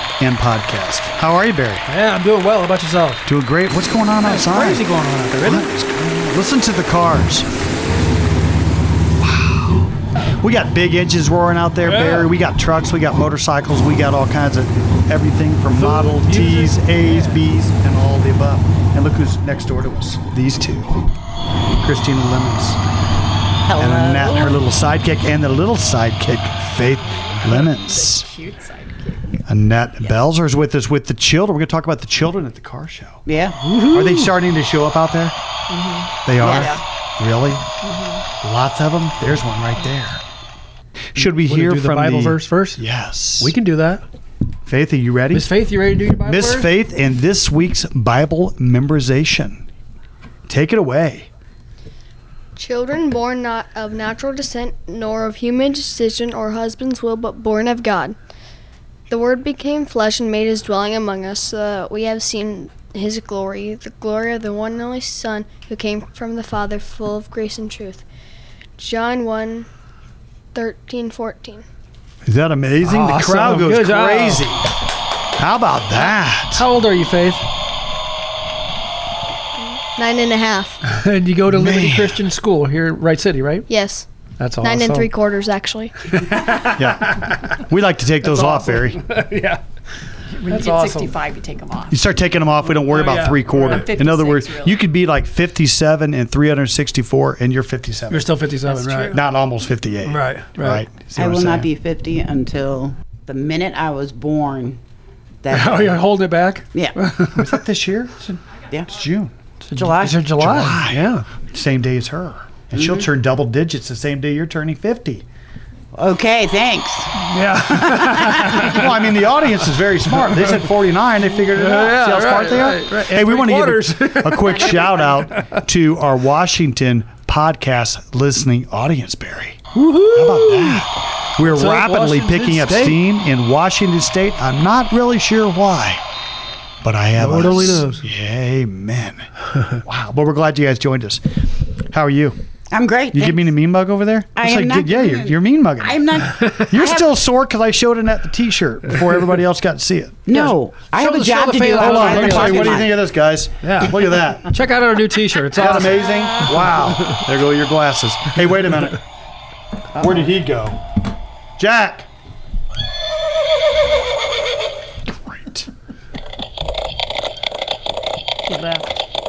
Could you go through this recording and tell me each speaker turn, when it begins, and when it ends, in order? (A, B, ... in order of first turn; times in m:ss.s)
0:00.2-0:01.9 A
0:01.9-0:03.2 B
0:03.3-0:04.8 A
0:04.2-0:05.7 B
0:05.4-0:07.5 A
0:09.2-0:09.9 A
0:10.4-0:21.0 A
0:11.8-0:12.3 B
0:15.7-0:17.4 B
0:21.8-0:22.8 A
0:23.6-0:24.5 C
0:23.8-0:28.3 A
0:27.2-0:29.4 D
0:29.5-0:33.2 A
0:33.2-0:33.6 C
0:33.6-0:34.3 B
0:33.9-0:35.4 A
0:35.7-0:36.8 D
0:36.2-0:37.6 A
0:36.4-0:36.8 C
0:37.8-0:38.2 D
0:38.4-0:40.2 A
0:41.1-0:43.5 A
0:41.2-0:42.8 B
0:43.4-0:44.0 B
0:44.6-0:45.5 A
0:45.3-0:46.7 B
0:46.2-0:49.6 A
0:50.5-0:51.3 A
0:52.6-0:58.2 E
0:59.1-1:08.0 E
1:08.8-1:09.7 E
1:10.5-1:11.6 E
1:12.2-1:14.7 A
1:12.8-1:14.5 B
1:15.4-1:16.6 A
1:16.5-1:17.4 B
1:19.6-1:20.8 E
1:20.8-1:23.6 B
1:21.5-1:22.2 A
1:23.7-1:24.1 E
1:24.4-1:25.1 B
1:24.6-1:26.1 E
1:26.1-1:27.6 B
1:26.7-1:29.0 A
1:28.2-1:29.6 B
1:30.3-1:32.1 D
1:30.5-1:31.1 B
1:31.9-1:38.4 A
1:32.8-1:33.8 B
1:33.5-1:34.8 D
1:38.1-1:39.2 B
1:38.6-1:39.2 D
1:39.1-1:41.7 A
1:40.0-1:40.8 B
1:41.2-1:44.8 C
1:45.4-1:46.0 C
1:45.5-1:47.5 B
1:47.3-1:49.3 A
1:49.7-1:51.2 B
1:49.7-1:50.2 C
1:50.4-1:55.2 A
1:52.8-1:53.0 C
1:55.9-1:57.2 C
1:57.2-1:58.8 B
1:57.7-1:58.8 C
1:58.3-2:16.0 A
2:01.5-2:05.6 B
2:04.4-2:05.2 D
2:09.7-2:10.8 B
2:11.4-2:13.0 B
2:16.8-2:19.3 A
2:17.2-2:18.1 B
2:19.8-2:22.4 A
2:22.7-2:23.5 C
2:23.1-2:30.2 A
2:24.3-2:27.1 C
2:30.3-2:32.9 C
2:30.3-2:32.8 B
2:31.8-2:34.5 A
2:33.6-2:37.2 B
2:35.5-2:39.0 A
2:40.0-2:40.8 A
2:41.6-2:42.1 A
2:45.2-2:45.7 A
2:48.5-2:48.9 D